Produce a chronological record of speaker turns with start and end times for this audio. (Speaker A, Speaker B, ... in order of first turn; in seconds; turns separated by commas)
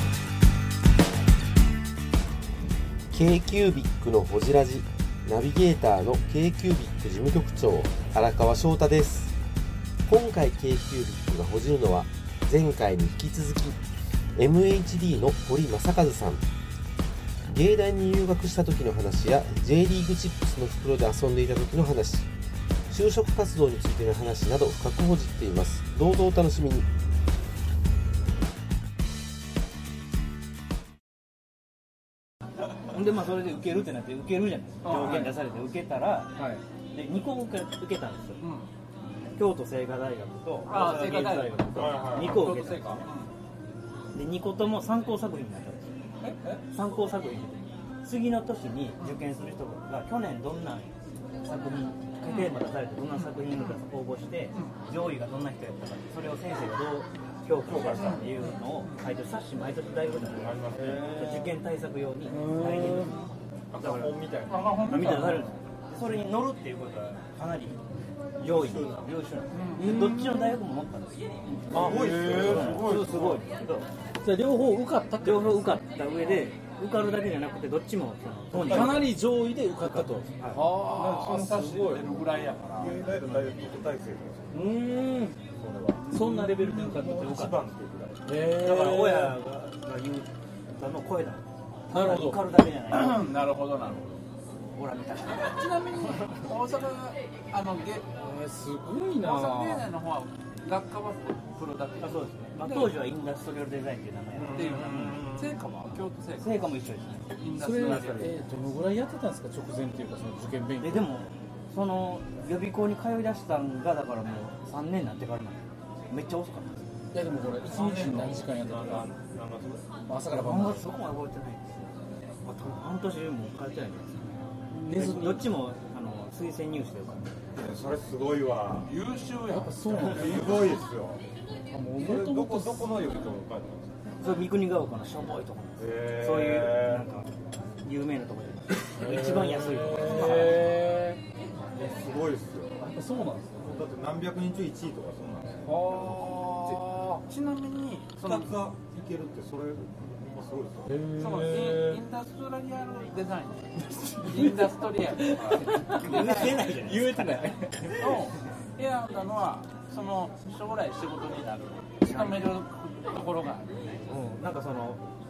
Speaker A: 3.1-9.3, Speaker A: 10.1-13.8, Speaker A: 14.4-16.4, Speaker A: 17.5-22.3, Speaker A: 22.9-26.9, Speaker B: 32.9-36.4, Speaker C: 34.8-35.3, Speaker D: 35.0-35.3, Speaker D: 36.4-36.6, Speaker B: 36.9-38.5, Speaker C: 38.4-38.7, Speaker B: 39.4-43.0, Speaker C: 40.7-43.3, Speaker E: 41.7-42.5, Speaker B: 44.1-45.9, Speaker C: 46.2-46.6, Speaker B: 46.7-63.3, Speaker C: 52.3-52.6, Speaker C: 53.2-53.8, Speaker E: 57.6-58.4, Speaker C: 58.0-59.1, Speaker E: 60.1-61.4, Speaker D: 60.7-61.5, Speaker D: 62.3-63.2, Speaker E: 63.7-65.3, Speaker B: 63.8-64.2, Speaker C: 64.5-65.6, Speaker B: 64.8-67.8, Speaker E: 68.4-69.1, Speaker B: 68.4-73.9, Speaker C: 69.5-70.1, Speaker D: 69.8-70.6, Speaker D: 71.7-72.9, Speaker E: 71.7-73.5, Speaker D: 74.2-75.8, Speaker B: 75.2-79.2, Speaker E: 78.5-79.1, Speaker D: 78.6-82.1, Speaker B: 79.8-80.7, Speaker C: 80.8-83.0, Speaker E: 82.7-84.6, Speaker B: 83.2-83.5, Speaker D: 84.5-85.4, Speaker E: 85.5-88.3, Speaker D: 86.1-87.4, Speaker B: 86.3-87.6, Speaker D: 88.3-89.4, Speaker B: 88.6-93.3, Speaker D: 91.9-92.4, Speaker C: 92.9-94.2, Speaker B: 94.8-96.4, Speaker C: 95.3-98.1, Speaker D: 98.2-99.9, Speaker C: 99.2-103.2, Speaker B: 102.0-105.2, Speaker E: 104.3-105.5, Speaker C: 104.5-106.8, Speaker B: 106.4-108.3, Speaker C: 107.4-108.4, Speaker D: 107.5-111.1, Speaker B: 110.8-116.9, Speaker D: 117.1-119.1, Speaker E: 117.6-119.9, Speaker D: 120.1-120.8, Speaker B: 120.3-121.8, Speaker B: 122.5-124.3, Speaker D: 124.7-125.5, Speaker B: 124.9-127.3, Speaker E: 127.5-128.9, Speaker C: 128.8-130.8, Speaker D: 129.5-130.6, Speaker E: 130.0-131.2, Speaker D: 131.7-133.0, Speaker E: 132.0-133.9, Speaker B: 134.2-137.3, Speaker E: 135.8-137.1, Speaker B: 137.8-140.6, Speaker D: 139.0-141.2, Speaker E: 139.1-140.7, Speaker B: 141.8-142.3, Speaker E: 141.8-142.8, Speaker D: 142.8-143.7, Speaker E: 143.6-146.3, Speaker D: 145.6-147.2, Speaker C: 146.6-148.6, Speaker E: 148.2-151.0, Speaker D: 150.9-152.0, Speaker C: 151.2-156.8, Speaker D: 153.8-158.1, Speaker B: 155.9-158.2, Speaker C: 158.0-164.1, Speaker B: 162.0-162.6, Speaker B: 164.1-165.0